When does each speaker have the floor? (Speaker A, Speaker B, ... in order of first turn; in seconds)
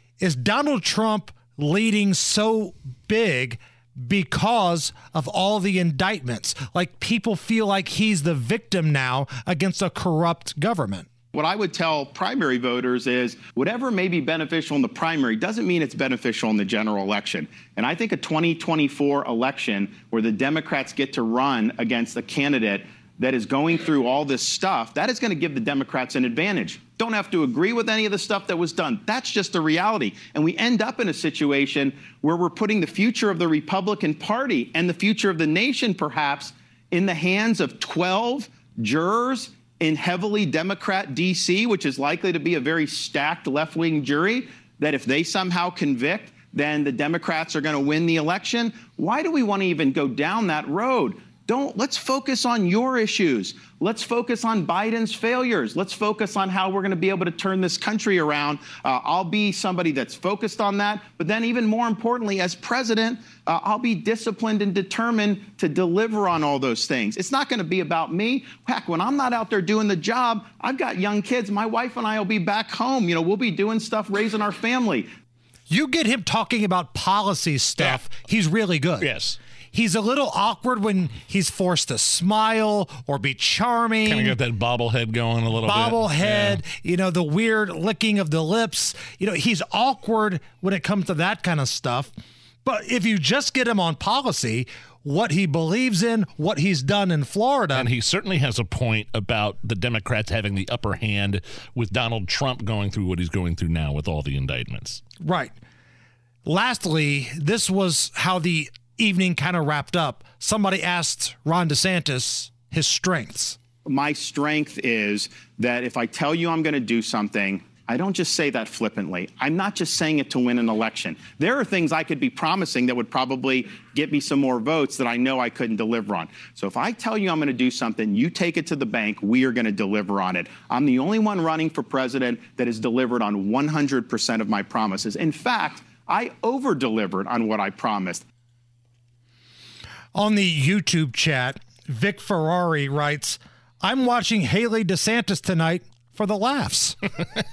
Speaker A: 0.2-11.1, 75.7-79.1, 79.7-84.4, 85.6-92.1, 92.7-97.9, 105.2-105.5, 106.5-113.6, 140.1-147.0
Speaker B: 11.3-75.1, 113.9-138.2
Speaker C: 79.0-79.4, 84.0-86.6, 97.7-105.0